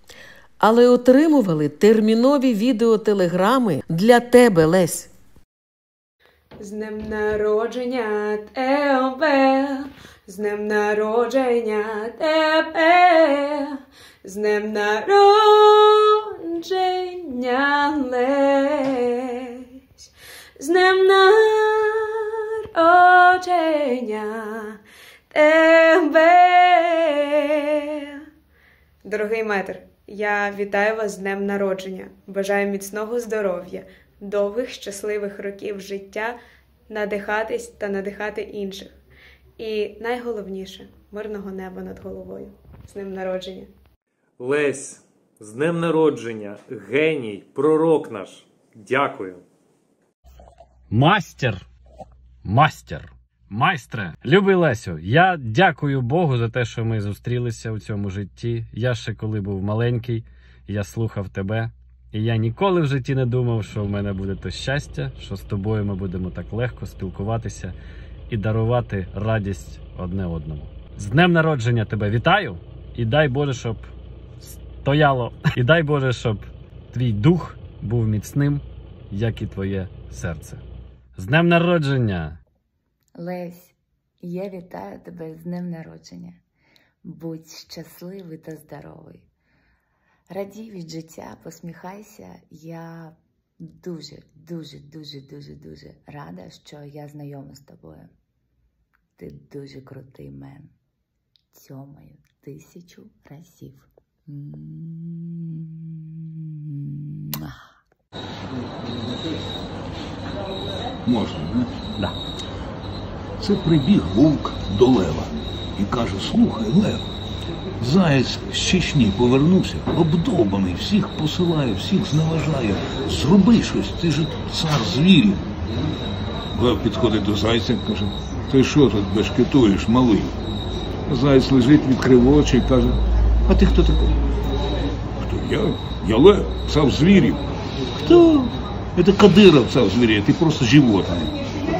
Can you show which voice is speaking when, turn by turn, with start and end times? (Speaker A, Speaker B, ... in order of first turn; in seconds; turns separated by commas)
Speaker A: 0.6-5.1, Speaker B: 6.6-20.1, Speaker B: 20.6-22.1, Speaker B: 22.7-24.8, Speaker B: 25.3-27.5, Speaker B: 29.0-36.4, Speaker B: 36.9-39.0, Speaker B: 39.6-43.7, Speaker C: 44.4-49.4, Speaker D: 50.9-51.6, Speaker D: 52.4-67.7, Speaker D: 68.3-73.9, Speaker D: 74.4-80.6, Speaker D: 81.2-82.4, Speaker E: 83.1-86.4, Speaker E: 87.0-89.3, Speaker E: 90.3-98.1, Speaker E: 99.2-100.7, Speaker E: 101.5-105.4, Speaker F: 111.0-112.1, Speaker F: 113.4-117.1, Speaker F: 117.8-125.4, Speaker F: 126.5-130.4, Speaker F: 131.1-134.1, Speaker F: 135.2-137.4, Speaker F: 138.0-141.3